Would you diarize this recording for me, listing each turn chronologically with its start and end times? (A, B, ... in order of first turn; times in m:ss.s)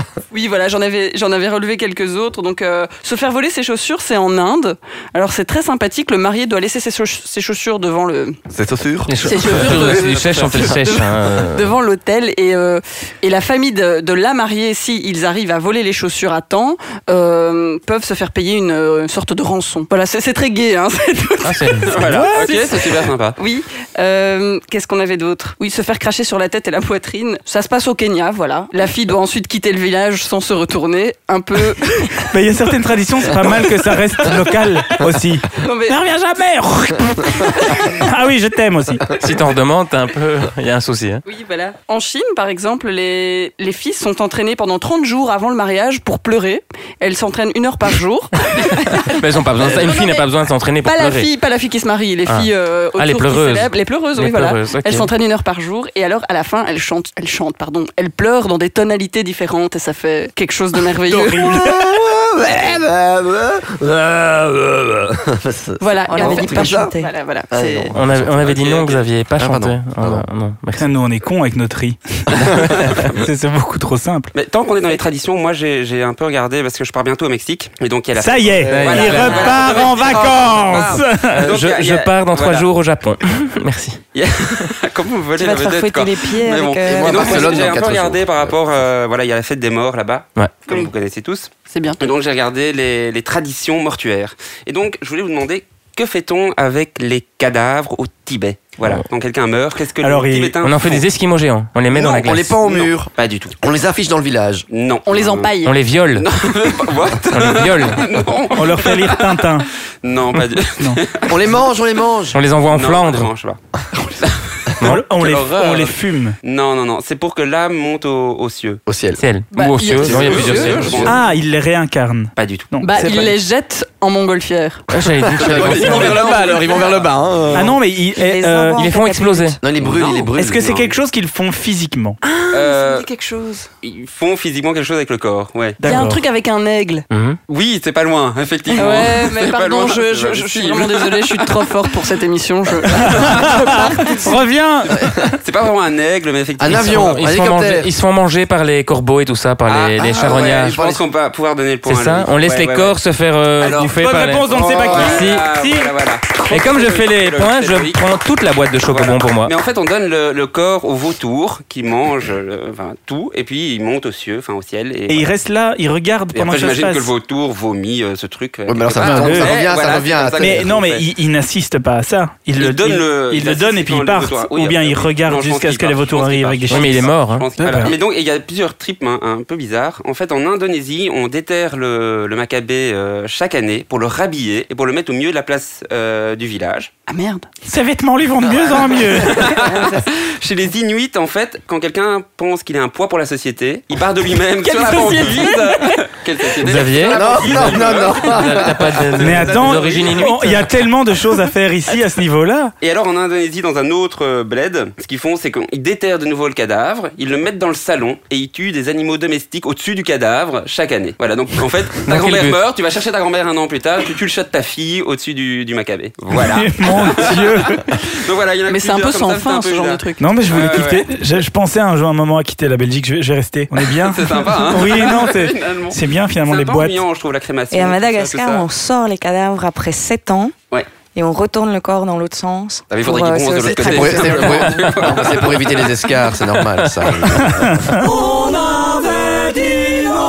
0:00.3-0:08.4 A
0:08.5-0:09.4 B
0:09.1-0:11.7 C
0:09.2-0:32.3 A
0:09.6-0:10.9 D
0:21.4-0:22.0 C
0:21.8-0:23.4 D
0:22.0-0:22.5 E
0:32.2-0:39.0 E
0:35.6-0:36.0 A
0:39.1-0:41.2 C
0:41.2-0:50.3 A
0:48.9-0:51.3 C
0:50.8-1:01.6 A
0:52.2-0:55.1 C
1:01.1-1:01.8 E
1:01.4-1:06.9 B
1:05.8-1:07.9 A
1:06.1-1:07.1 F
1:07.5-1:08.6 B
1:07.9-1:10.9 C
1:08.4-1:09.0 D
1:09.4-1:10.2 B
1:10.8-1:14.3 E
1:12.4-1:12.7 B
1:12.6-1:13.0 C
1:14.3-1:22.7 D
1:18.2-1:21.4 E
1:18.6-1:19.8 C
1:18.7-1:19.0 B
1:21.2-1:24.0 C
1:24.1-1:41.1 D
1:25.4-1:27.7 F
1:26.8-1:28.6 B
1:30.3-1:30.6 C
1:31.7-1:32.0 A
1:40.0-1:40.5 E
1:40.6-1:42.6 C
1:41.9-1:44.7 B
1:42.6-1:43.5 D
1:44.7-1:45.6 D
1:45.0-1:45.7 A
1:45.6-1:46.3 C
1:46.1-1:49.5 D
1:47.3-1:48.2 C
1:48.5-1:49.7 E
1:50.0-1:51.5 D
1:51.3-1:52.4 B
1:52.3-1:53.3 C
1:52.6-1:53.6 D
1:54.2-1:58.8 D
1:54.8-1:55.1 C
1:54.8-1:56.4 E
1:58.8-1:59.2 B
1:59.2-2:01.1 C
1:59.5-2:01.0 A
2:00.0-2:01.2 D
2:00.0-2:01.0 B
2:01.0-2:03.4 E
2:02.4-2:02.7 D
2:02.8-2:04.8 A
2:04.9-2:06.2 C
2:05.2-2:07.8 B
2:05.3-2:07.1 D
2:06.0-2:06.2 A
2:07.5-2:08.8 E
2:08.1-2:09.6 F
2:08.8-2:09.6 C
2:09.6-2:10.8 B
2:09.8-2:10.9 D
2:10.3-2:12.2 E
2:12.2-2:13.7 A
2:12.5-2:13.1 D
2:13.8-2:15.8 D
2:15.8-2:16.2 E
2:15.8-2:17.1 A
2:17.1-2:17.4 C
2:17.5-2:21.6 D
2:18.7-2:24.3 A
2:23.0-2:24.2 D
2:23.0-2:25.1 E
2:25.4-2:27.3 D
2:26.6-2:27.9 B
2:26.7-2:30.8 C
2:29.6-2:33.0 D
2:30.0-2:31.0 B
2:31.8-2:35.8 C
2:33.6-2:38.1 D
2:34.0-2:35.9 E
2:36.3-2:39.5 C
2:38.8-2:45.3 D
2:45.1-2:47.1 E
2:46.3-2:51.1 D
2:48.6-2:50.7 B
2:49.0-2:49.5 E
2:50.4-2:57.9 E
2:52.6-3:06.9 D
2:56.7-2:57.9 C
3:07.1-3:07.5 A
3:07.6-3:09.6 E
3:08.6-3:20.4 D
3:14.6-3:16.0 A
3:16.6-3:20.7 C
3:17.1-3:19.1 B
3:19.2-3:22.7 E
3:22.8-3:41.1 D
3:32.0-3:32.6 C
3:36.3-3:37.9 E
3:38.7-3:40.3 A
3:40.2-3:47.0 E
3:43.9-3:48.6 D
3:47.7-3:50.5 F
3:51.1-3:54.7 F
3:52.9-3:55.9 D
3:53.7-3:58.1 B
3:57.6-3:58.1 E